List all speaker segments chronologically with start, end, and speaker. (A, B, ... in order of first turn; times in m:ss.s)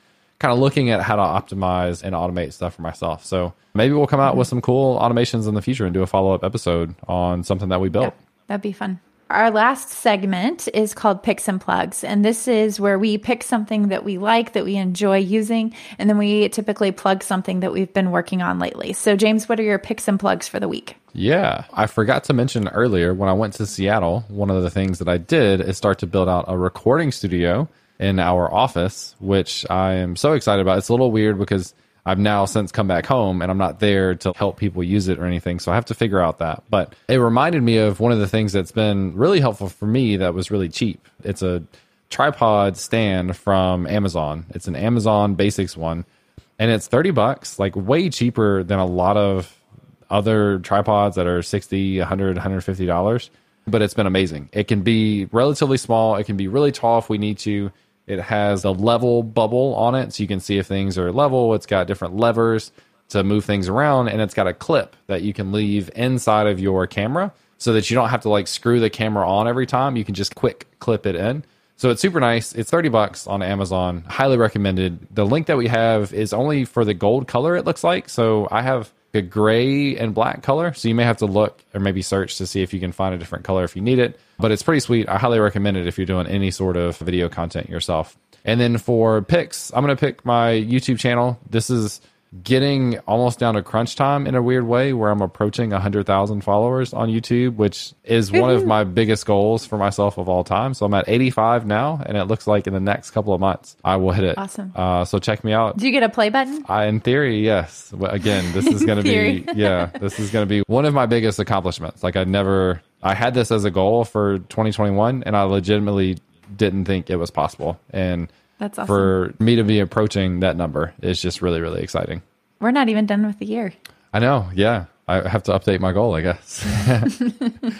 0:00.4-0:08.1 A
0:08.0-0:21.0 B
0:21.1-0:46.1 A
0:46.6-0:49.6 A
0:50.1-1:45.8 A
1:38.3-1:38.7 B
1:44.4-1:44.7 B
1:45.8-1:46.6 B
1:46.6-1:58.3 A
1:48.3-1:50.0 B
1:58.6-1:59.1 B
1:58.8-2:02.2 A
2:02.6-2:03.7 B
2:04.1-2:07.2 A
2:07.2-2:07.5 B